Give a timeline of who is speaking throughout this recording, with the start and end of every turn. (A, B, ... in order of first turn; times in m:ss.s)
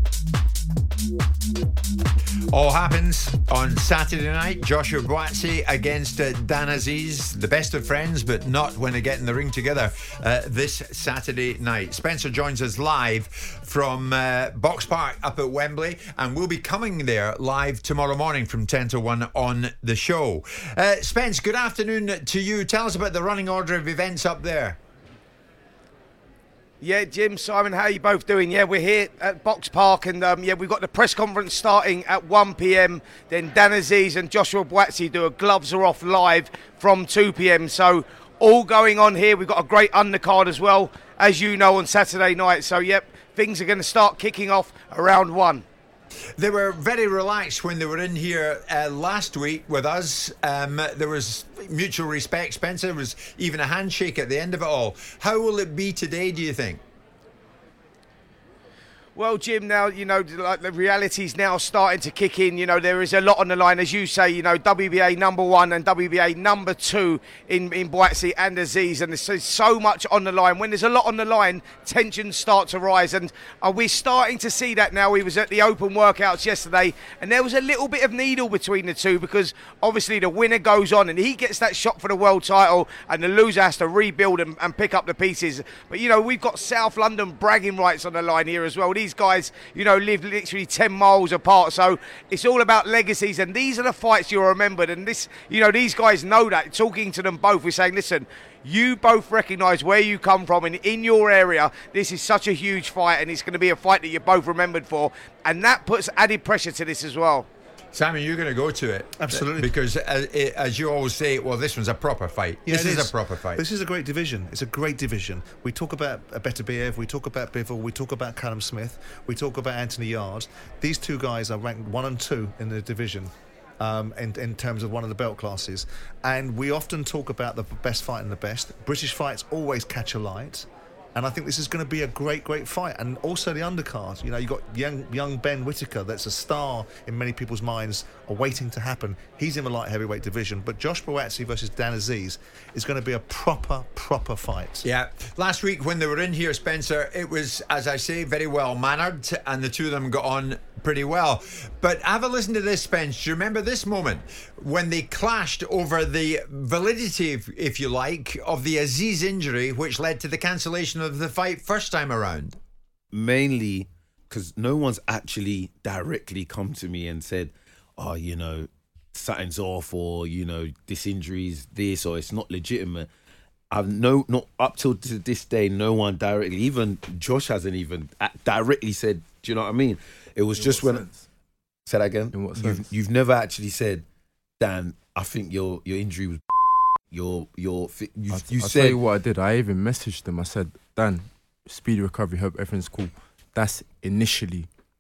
0:02.5-0:24.8 A
0:26.8-0:45.6 B
0:46.4-0:56.8 A
0:59.2-1:47.5 B
1:47.9-1:53.6 A
1:49.2-1:49.7 C
1:52.7-2:24.9 C
2:24.8-2:42.6 A
2:43.1-2:53.1 D
2:53.7-3:01.1 D
3:00.5-3:01.2 E
3:01.9-3:04.0 D
3:02.3-3:02.9 E
3:04.6-3:06.4 D
3:07.1-3:09.0 D
3:08.3-3:14.7 E